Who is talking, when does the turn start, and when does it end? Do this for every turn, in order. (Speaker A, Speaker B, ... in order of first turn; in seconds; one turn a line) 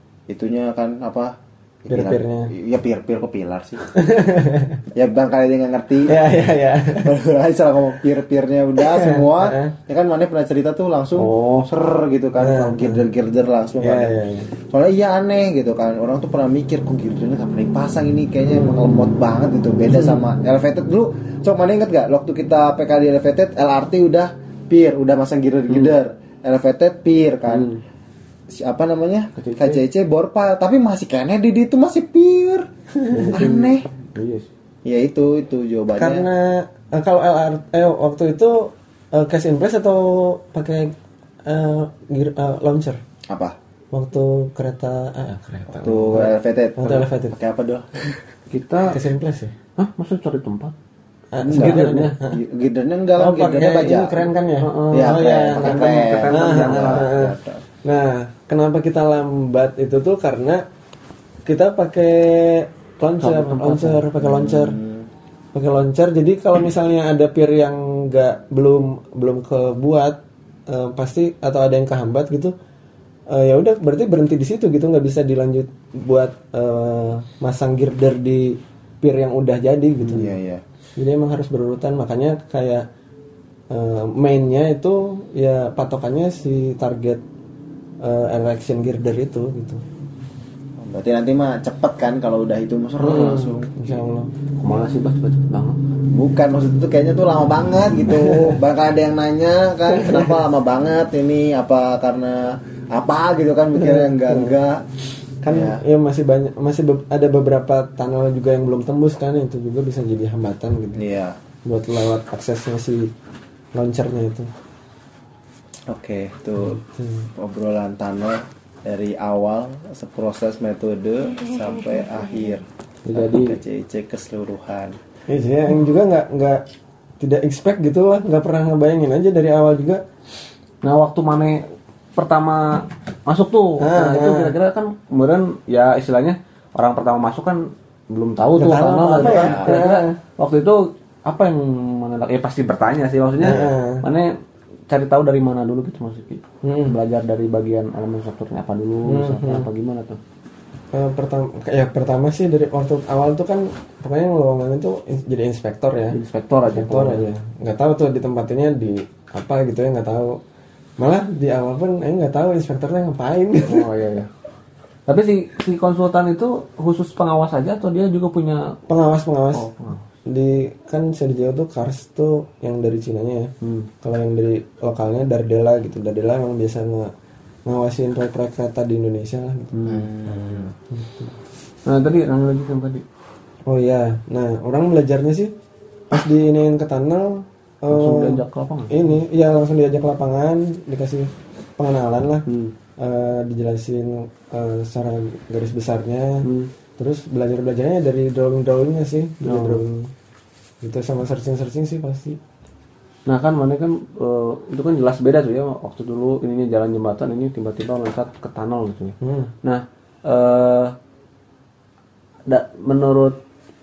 Speaker A: 0.3-3.9
Speaker B: 1.9-2.5
Speaker B: 3.9-4.8
Speaker A: 4.9-6.3
Speaker B: 6.0-7.1
Speaker A: 6.9-14.1
Speaker B: 8.8-9.8
Speaker C: 11.2-11.7
Speaker B: 12.4-13.1
Speaker B: 13.8-14.5
Speaker A: 14.7-27.7
Speaker C: 27.5-27.8
Speaker A: 28.5-32.7
Speaker C: 29.4-29.8
Speaker B: 33.0-33.4
Speaker C: 33.1-34.5
Speaker A: 33.3-33.9
Speaker A: 34.9-36.3
Speaker B: 36.0-40.9
Speaker B: 41.5-43.0
Speaker A: 43.3-43.5
Speaker B: 43.9-47.4
Speaker A: 45.7-48.2
Speaker C: 48.5-49.0
Speaker B: 48.9-49.5
Speaker C: 49.8-50.7
Speaker B: 51.3-52.4
Speaker A: 51.4-54.3
Speaker C: 51.5-52.2
Speaker B: 53.2-60.6
Speaker C: 54.6-57.1
Speaker A: 54.9-57.6
Speaker B: 61.5-64.8
Speaker C: 63.2-64.1
Speaker A: 64.2-65.1
Speaker B: 65.5-72.5
Speaker B: 73.3-80.3
Speaker A: 80.1-80.6
Speaker B: 81.0-82.9
Speaker B: 83.7-87.2
Speaker B: 88.0-89.8
Speaker A: 90.8-93.9
Speaker B: 93.0-94.3
Speaker C: 94.6-95.8
Speaker A: 96.1-104.8
Speaker B: 99.9-100.3
Speaker B: 103.8-104.5
Speaker B: 105.4-111.0
Speaker A: 105.5-105.8
Speaker A: 111.0-111.4
Speaker B: 111.7-113.1
Speaker B: 113.8-114.5
Speaker A: 115.9-116.8
Speaker B: 116.7-117.3
Speaker A: 117.4-125.0
Speaker C: 123.1-123.6
Speaker B: 125.3-126.7
Speaker B: 127.2-130.0
Speaker C: 130.8-131.6
Speaker C: 132.2-144.3
Speaker B: 133.8-134.6
Speaker B: 138.6-140.2
Speaker A: 139.2-139.8
Speaker B: 143.4-144.1
Speaker C: 144.9-150.2
Speaker B: 146.6-147.0
Speaker B: 149.1-149.7
Speaker B: 150.9-156.2
Speaker C: 156.1-157.3
Speaker B: 156.7-160.4
Speaker B: 161.0-163.9
Speaker C: 163.7-164.3
Speaker C: 165.1-168.8
Speaker B: 168.9-169.7
Speaker C: 169.5-170.0
Speaker B: 170.3-177.1
Speaker C: 173.6-173.9
Speaker B: 177.7-181.3
Speaker C: 179.7-180.1
Speaker A: 179.8-180.7
Speaker C: 181.9-183.0
Speaker B: 183.7-185.5
Speaker B: 186.1-192.5
Speaker C: 187.9-189.2
Speaker C: 192.5-192.7
Speaker B: 193.0-200.1
Speaker C: 196.4-196.7
Speaker C: 199.4-199.8
Speaker B: 200.8-202.4
Speaker C: 203.3-211.0
Speaker B: 209.2-209.5
Speaker C: 212.5-213.4